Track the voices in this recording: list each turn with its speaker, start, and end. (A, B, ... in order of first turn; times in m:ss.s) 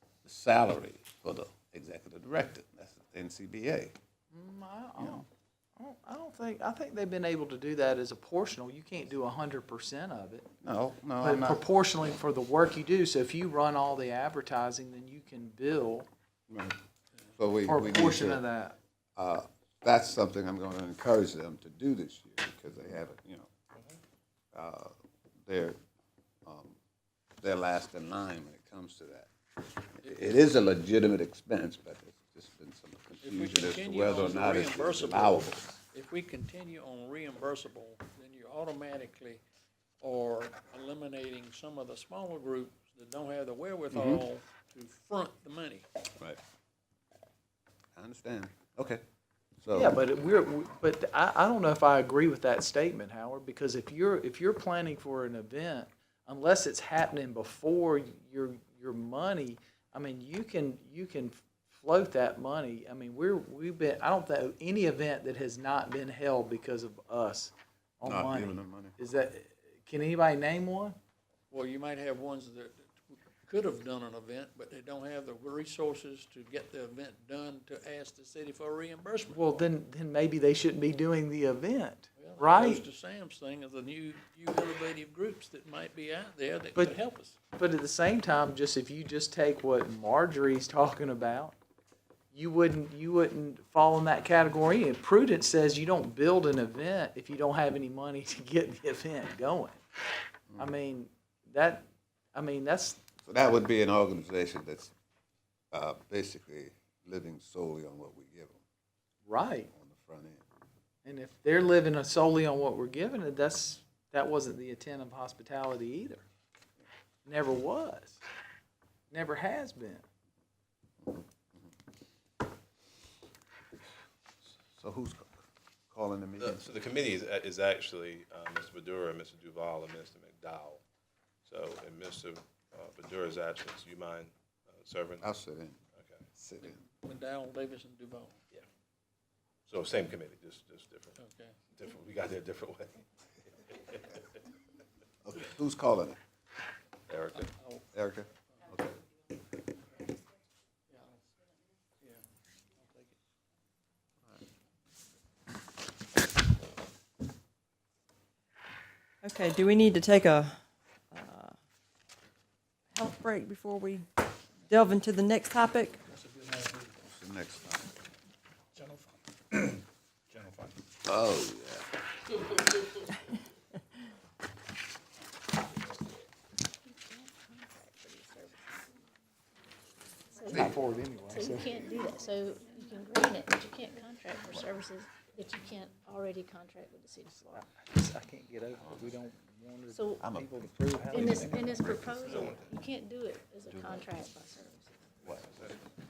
0:00.2-0:03.9 A
0:04.3-0:10.5 B
0:10.6-0:11.6 A
0:11.2-0:16.1 B
0:16.5-0:16.8 A
0:17.4-0:18.4 A
0:17.6-0:18.8 B
0:19.2-0:23.5 A
0:24.5-0:25.8 A
0:26.4-0:26.8 A
0:27.4-0:29.3 A
0:30.0-0:35.8 A
0:33.2-0:39.4 C
0:40.0-0:45.8 C
0:43.9-0:44.2 A
0:48.0-0:49.0 A
0:49.6-0:50.0 A
0:49.7-1:11.0 B
1:08.0-1:08.9 A
1:11.5-1:19.7 C
1:19.3-1:22.8 B
1:22.2-1:27.4 C
1:27.5-1:31.6 B
1:32.3-1:39.8 B
1:40.6-1:43.0 B
1:43.2-1:44.9 A
1:45.7-1:48.6 A
1:49.2-1:49.7 B
1:49.7-1:50.4 A
1:51.0-1:56.2 B
1:57.2-1:58.2 B
1:59.1-2:00.0 B
2:01.0-2:01.7 A
2:04.6-2:06.6 A
2:06.4-2:10.8 D
2:11.4-2:15.3 D
2:15.2-2:15.8 A
2:15.9-2:16.3 D
2:16.4-2:16.8 A
2:16.6-2:18.3 C
2:19.7-2:21.2 D
2:21.2-2:21.5 C
2:21.7-2:24.2 D
2:25.2-2:26.2 A
2:27.1-2:27.5 D
2:27.3-2:27.8 C
2:27.9-2:28.9 A
2:30.9-2:31.2 C
2:32.8-2:33.1 C
2:39.2-2:40.6 E
2:41.1-2:41.5 E
2:42.9-2:44.0 E
2:44.7-2:46.0 E
2:47.1-2:47.9 A
2:51.0-2:51.9 A
2:56.9-2:58.8 F
3:00.4-3:00.7 F
3:00.5-3:01.9 B
3:00.5-3:00.8 A
3:01.3-3:07.6 F
3:07.4-3:11.8 B
3:08.7-3:09.2 A
3:09.9-3:10.2 F
3:10.2-3:12.7 A
3:11.1-3:14.9 F
3:12.2-3:12.6 D
3:13.7-3:14.1 A
3:15.4-3:15.8 D